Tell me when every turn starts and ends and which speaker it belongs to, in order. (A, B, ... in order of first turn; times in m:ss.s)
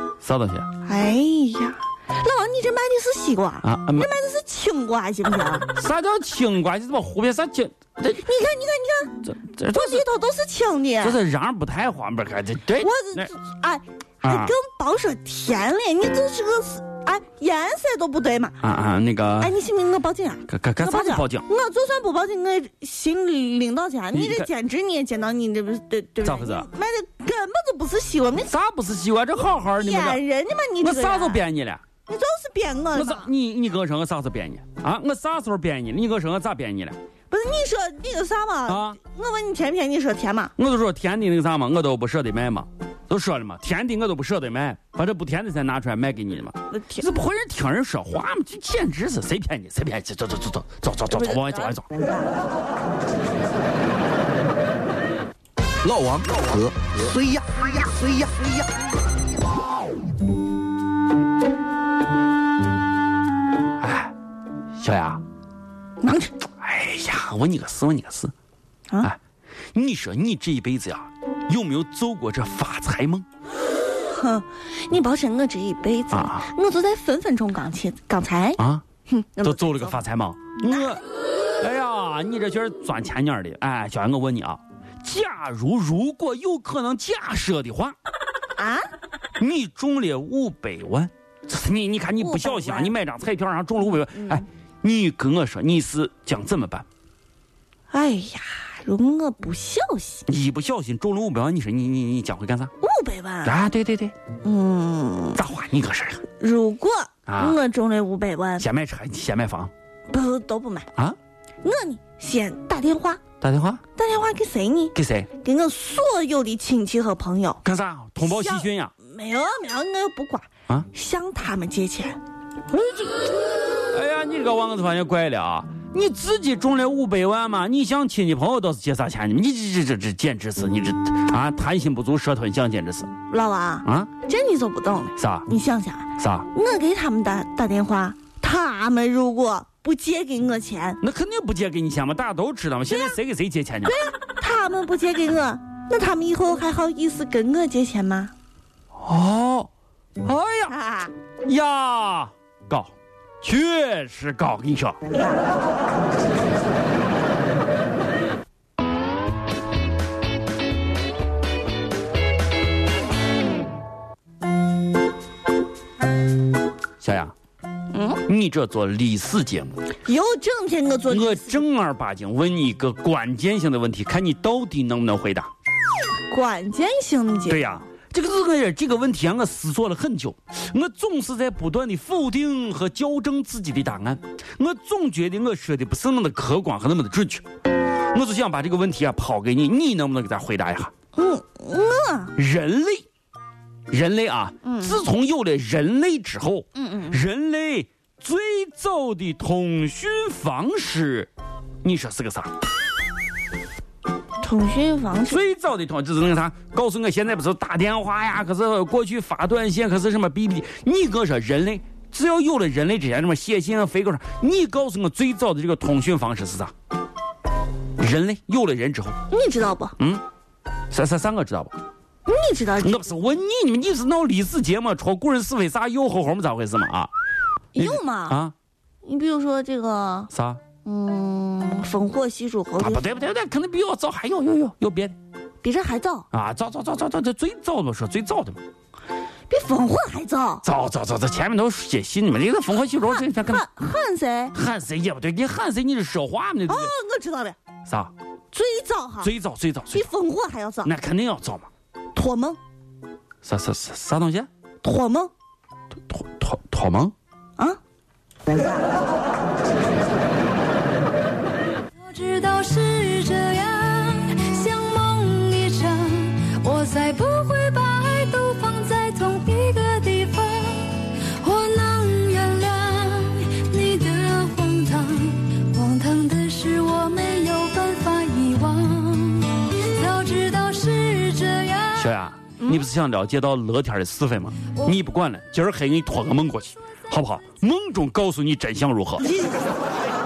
0:00.2-0:00.7 A
0:00.8-0:05.7 B
0:03.6-0:04.1 A
0:05.7-0:08.2 A
0:08.2-0:11.2 B
0:09.2-0:10.0 A
0:11.0-0:13.3 A
0:12.8-0:18.6 B
0:14.2-0:14.5 A
0:18.6-0:19.5 A
0:19.4-0:28.5 B
0:20.5-0:21.4 A
0:24.1-0:24.5 A
0:26.2-0:26.7 A
0:28.5-0:30.2 A
0:29.8-0:31.4 B
0:30.8-0:31.8 A
0:32.1-0:33.3 B
0:32.9-0:37.0 A
0:37.3-0:40.5 B
0:38.7-0:39.0 A
0:40.6-0:51.9 A
0:46.7-0:47.0 B
0:51.1-0:52.3 B
0:55.8-0:58.6 C
1:03.8-1:04.1 A
1:04.8-1:05.2 A
1:06.0-1:06.3 B
1:06.6-1:08.3 A
1:09.7-1:13.2 A
1:14.1-1:20.0 B
1:16.1-1:16.5 A
1:18.6-1:18.8 A
1:19.4-1:21.0 A
1:21.6-1:28.0 A
1:28.6-1:28.8 B
1:29.4-1:36.8 A
1:32.2-1:32.9 B
1:34.1-1:34.4 B
1:37.9-1:40.2 B
1:40.3-1:42.7 A
1:42.8-1:43.6 B
1:43.4-1:44.1 A
1:44.4-1:45.4 B
1:45.3-1:46.2 A
1:46.4-1:48.7 B
1:47.3-1:47.6 A
1:48.6-1:49.7 A
1:50.1-1:50.9 B
1:51.6-1:53.2 B
1:53.4-1:53.8 A
1:54.0-1:57.6 B
1:54.9-1:55.3 A
1:57.6-1:58.9 A
1:58.2-2:02.2 B
2:02.7-2:03.3 A
2:03.9-2:13.1 A
2:13.3-2:21.0 B
2:13.8-2:14.1 A
2:15.2-2:15.5 A
2:16.2-2:16.5 A
2:21.0-2:23.9 A
2:22.9-2:23.2 B
2:23.8-2:28.3 B
2:29.0-2:29.7 A
2:30.2-2:30.7 A
2:30.7-2:31.1 B
2:31.4-2:35.0 A
2:35.1-2:35.4 B
2:47.0-2:47.3 A
2:47.9-2:48.2 B
2:48.2-2:49.8 A
2:50.0-2:51.6 B
2:51.1-2:55.5 A
2:56.3-2:57.8 B
2:57.5-3:07.4 A
3:08.1-3:10.9 A
3:11.1-3:12.4 B
3:12.4-3:13.0 A
3:13.9-3:21.3 A
3:14.6-3:15.1 B
3:16.8-3:17.2 B
3:21.8-3:22.5 A
3:24.4-3:25.4 B
3:25.3-3:36.7 A
3:38.0-3:39.2 A
3:39.3-3:40.0 B
3:40.9-3:41.7 A
3:42.2-3:43.0 B
3:42.8-3:47.1 A
3:47.7-3:48.4 B
3:47.8-3:48.5 A
3:49.0-3:50.3 B
3:50.3-3:50.6 A
3:50.8-3:53.1 B
3:52.8-3:55.2 A
3:55.6-3:56.3 B
3:56.3-3:58.6 A
3:59.5-4:00.6 B
4:00.6-4:03.7 A
4:03.0-4:04.5 B
4:04.5-4:06.9 A
4:06.7-4:07.6 B
4:07.8-4:08.1 A
4:08.5-4:09.3 B
4:09.2-4:10.1 A
4:09.9-4:10.9 B
4:10.8-4:11.7 A
4:12.1-4:12.6 B
4:13.4-4:14.5 A
4:14.8-4:15.3 B
4:16.1-4:17.1 A
4:18.5-4:18.8 B
4:22.0-4:42.1 D
4:41.9-4:49.4 A